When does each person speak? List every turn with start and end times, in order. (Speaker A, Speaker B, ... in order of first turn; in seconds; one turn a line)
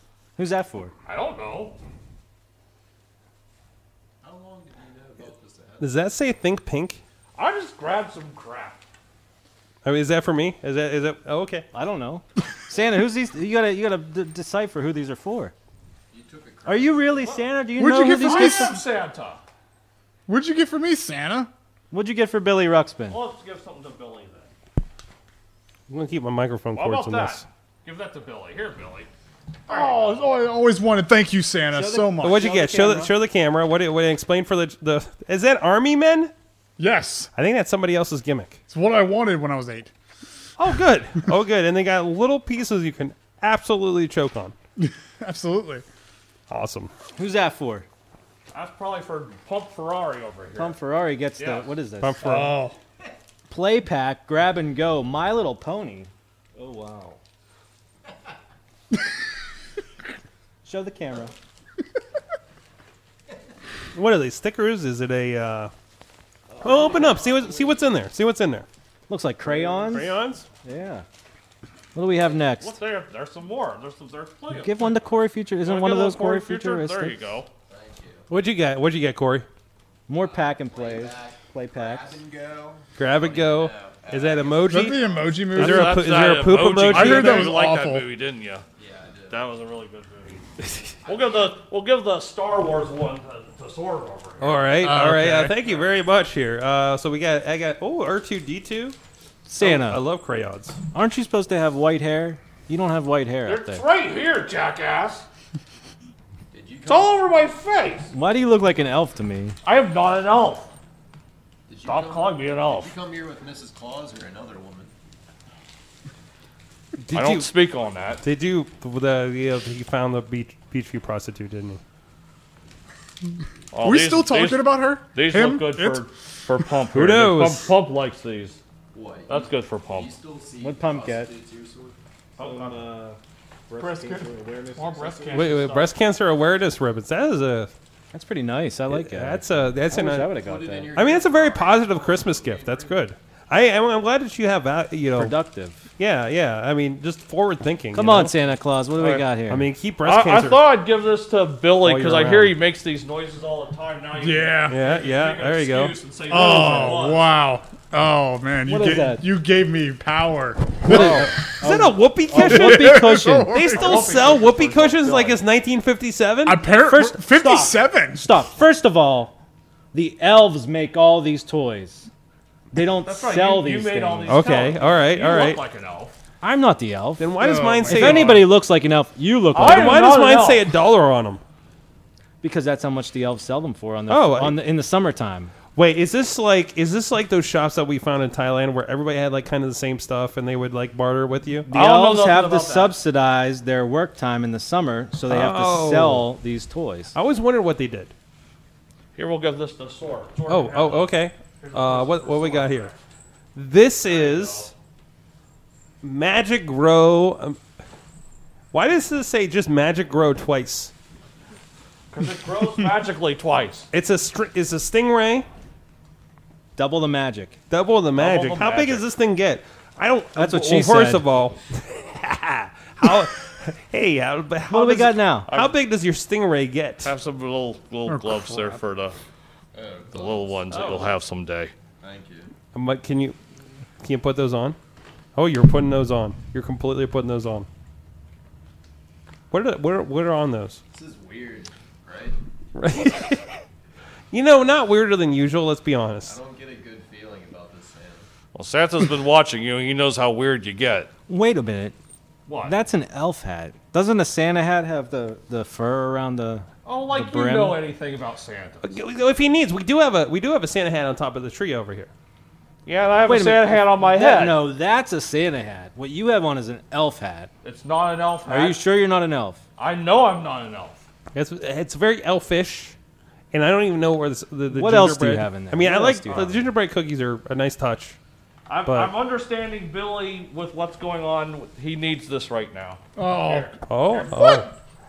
Speaker A: 0.4-0.9
Speaker B: 1.1-1.8
Speaker C: 4.2-6.1
Speaker D: 5.8-7.0
Speaker B: 7.3-8.8
Speaker D: 9.8-11.7
Speaker A: 11.7-15.5
Speaker C: 16.1-17.2
Speaker A: 16.7-18.7
Speaker E: 17.8-18.8
Speaker B: 18.2-19.4
Speaker E: 20.3-21.5
Speaker A: 21.9-23.2
Speaker B: 23.1-24.5
Speaker D: 25.9-27.4
Speaker B: 26.7-29.1
Speaker B: 29.7-30.4
Speaker E: 29.7-32.4
Speaker A: 31.7-33.1
Speaker D: 32.2-36.3
Speaker E: 36.8-37.3
Speaker D: 37.4-38.6
Speaker E: 38.7-39.9
Speaker D: 40.6-44.5
Speaker E: 44.8-45.8
Speaker D: 46.5-46.9
Speaker A: 47.2-47.9
Speaker B: 48.5-50.8
Speaker A: 50.6-52.5
Speaker B: 51.4-51.7
Speaker D: 52.0-52.6
Speaker E: 52.2-52.8
Speaker A: 53.5-56.1
Speaker B: 56.5-57.2
Speaker A: 60.6-61.3
Speaker D: 63.9-65.7
Speaker B: 66.5-67.6
Speaker C: 66.6-67.6
Speaker D: 66.6-68.7
Speaker A: 69.1-70.1
Speaker D: 69.8-70.5
Speaker A: 70.6-71.0
Speaker A: 71.9-72.8
Speaker B: 72.5-75.1
Speaker A: 74.5-77.2
Speaker B: 75.6-77.5
Speaker C: 77.7-78.3
Speaker D: 78.3-79.5
Speaker A: 80.1-82.2
Speaker C: 80.1-85.4
Speaker D: 83.0-87.5
Speaker E: 84.7-86.1
Speaker B: 85.5-88.7
Speaker E: 86.8-88.1
Speaker C: 88.8-89.4
Speaker B: 89.3-90.5
Speaker B: 91.0-94.7
Speaker D: 94.4-99.0
Speaker E: 94.8-95.6
Speaker A: 99.5-100.0
Speaker D: 99.6-100.8
Speaker A: 100.9-103.8
Speaker B: 103.5-105.3
Speaker C: 106.5-107.4
Speaker B: 106.9-108.1
Speaker A: 108.1-109.6
Speaker B: 109.6-110.7
Speaker C: 111.7-114.9
Speaker B: 111.8-112.9
Speaker D: 117.0-117.5
Speaker B: 117.1-118.2
Speaker D: 118.2-121.8
Speaker B: 123.7-128.6
Speaker E: 123.8-126.1
Speaker D: 126.9-127.7
Speaker C: 128.9-132.0
Speaker B: 129.3-130.1
Speaker A: 130.6-131.3
Speaker B: 132.4-133.2
Speaker A: 133.7-134.3
Speaker B: 133.8-135.9
Speaker D: 135.3-137.7
Speaker A: 138.1-141.0
Speaker D: 138.9-140.4
Speaker C: 140.3-143.1
Speaker D: 140.9-145.4
Speaker A: 145.1-145.8
Speaker D: 146.0-148.4
Speaker A: 147.9-149.7
Speaker D: 149.4-150.7
Speaker B: 150.0-157.3
Speaker D: 151.8-152.6
Speaker E: 154.2-154.8
Speaker D: 154.7-156.0
Speaker E: 156.3-161.4
Speaker A: 156.3-157.0
Speaker A: 158.7-159.2
Speaker A: 160.9-163.6
Speaker D: 160.9-166.6
Speaker E: 162.4-164.4
Speaker B: 163.7-165.4
Speaker E: 166.4-168.4
Speaker A: 166.8-169.3
Speaker A: 169.9-172.1
Speaker A: 172.7-174.4
Speaker B: 173.0-176.2
Speaker D: 174.3-175.6
Speaker A: 176.4-177.3
Speaker D: 177.2-178.5
Speaker E: 177.4-178.5
Speaker A: 177.8-180.1
Speaker B: 179.5-180.7
Speaker D: 179.6-181.4
Speaker A: 182.4-185.5
Speaker D: 184.1-184.6
Speaker D: 185.8-191.7
Speaker A: 191.7-197.2
Speaker B: 191.7-193.0
Speaker D: 195.3-196.3
Speaker D: 197.2-198.1
Speaker B: 199.2-203.0
Speaker D: 200.5-202.9
Speaker D: 203.6-204.7
Speaker B: 204.1-204.7
Speaker D: 206.0-207.6
Speaker D: 208.7-210.9
Speaker B: 212.1-213.9
Speaker D: 213.9-215.5
Speaker A: 216.8-217.6
Speaker D: 217.7-227.1
Speaker B: 218.2-219.1
Speaker A: 220.3-221.2
Speaker A: 224.7-225.5
Speaker B: 225.5-225.7
Speaker B: 227.0-229.2
Speaker E: 228.1-228.7
Speaker C: 229.7-231.0
Speaker B: 230.1-231.7
Speaker D: 230.7-231.1
Speaker C: 232.0-232.5
Speaker D: 232.7-233.4
Speaker D: 234.0-234.8
Speaker D: 235.3-237.7
Speaker D: 239.5-240.8
Speaker C: 240.9-242.4
Speaker D: 242.8-243.6
Speaker D: 244.3-246.4
Speaker C: 246.2-248.3
Speaker B: 248.5-251.1
Speaker A: 251.3-252.0
Speaker B: 252.5-252.8
Speaker A: 252.6-257.8
Speaker B: 256.9-258.9
Speaker D: 258.8-262.1
Speaker B: 262.9-264.7
Speaker A: 263.3-267.5
Speaker B: 267.6-268.8
Speaker A: 268.5-269.6
Speaker B: 269.8-271.0
Speaker D: 271.3-272.9
Speaker D: 273.5-278.2
Speaker A: 274.7-276.6
Speaker B: 278.7-284.6
Speaker D: 278.9-279.1
Speaker E: 283.2-283.8
Speaker D: 283.9-284.7